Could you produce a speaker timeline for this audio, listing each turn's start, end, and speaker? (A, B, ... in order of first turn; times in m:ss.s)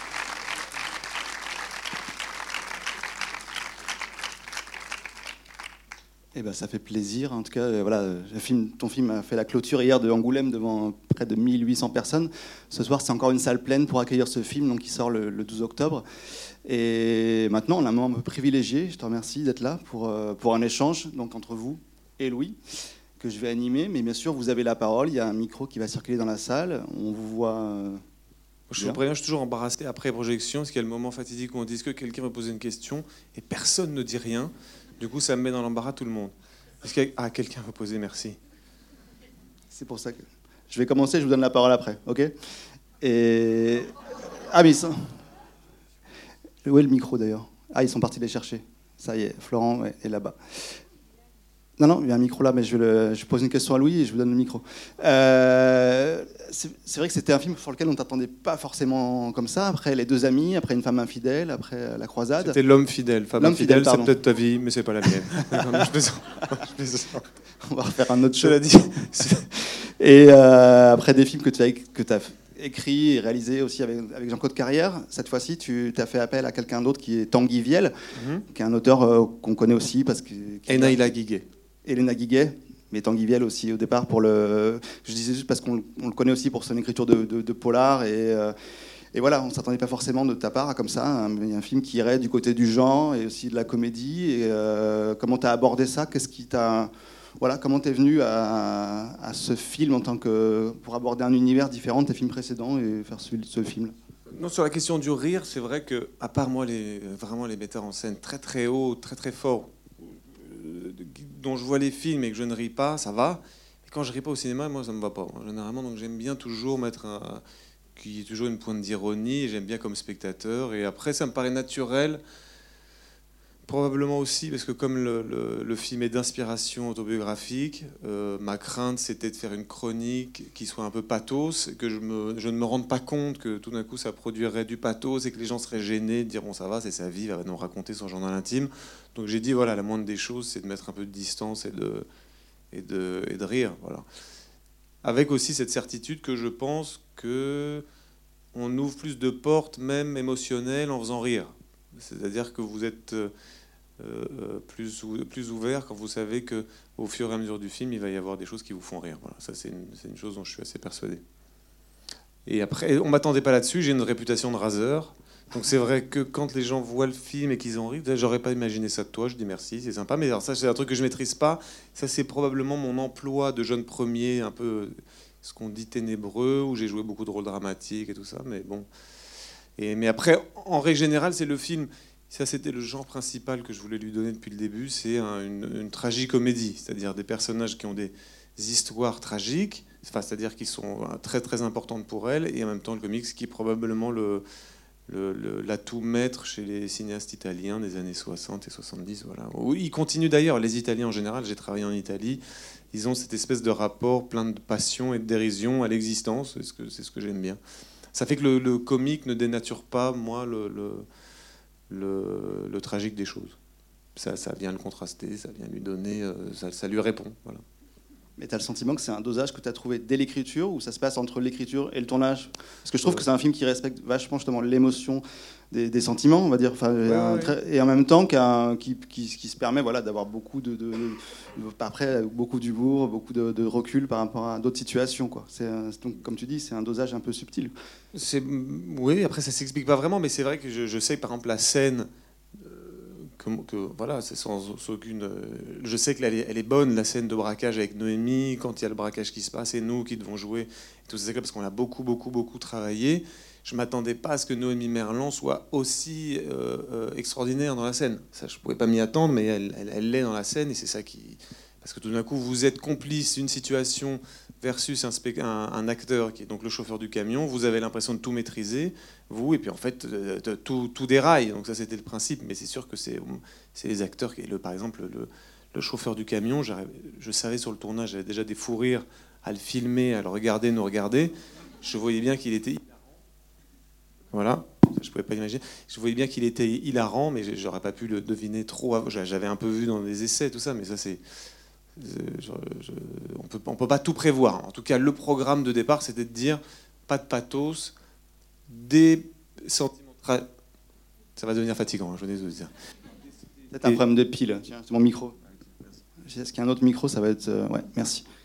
0:06.3-0:16.0 A
0:16.6-0:22.6 A
0:23.2-0:28.0 A
0:28.7-0:38.4 B
0:28.8-0:29.0 A
0:39.7-0:42.3 A
0:43.0-0:45.2 A
0:46.6-0:50.8 A
0:51.8-1:02.6 A
1:02.4-1:07.2 B
1:03.4-1:04.1 A
1:05.0-1:05.8 A
1:07.6-1:17.9 A
1:08.4-1:09.4 B
1:18.1-1:18.4 B
1:18.4-1:21.1 A
1:20.7-1:21.4 B
1:21.8-1:28.5 A
1:29.1-1:43.9 A
1:44.3-1:57.4 B
1:58.0-2:02.2 B
2:03.7-2:22.0 B
2:22.7-2:24.0 B
2:25.0-2:27.8 B
2:28.5-2:33.3 B
2:34.0-2:41.2 B
2:42.4-2:58.9 B
2:59.8-3:14.4 B
3:15.1-3:22.4 B
3:22.9-3:27.6 B
3:28.1-3:31.0 B
3:31.9-3:33.6 B
3:34.2-3:37.6 B
3:38.4-3:57.7 A
3:42.9-3:43.2 B
3:47.0-3:47.5 B
3:58.1-4:42.9 B
4:44.3-4:51.2 B
4:52.0-4:57.9 B
4:58.7-5:00.5 B
5:01.4-5:02.7 B
5:03.7-5:05.4 A
5:06.2-5:08.2 A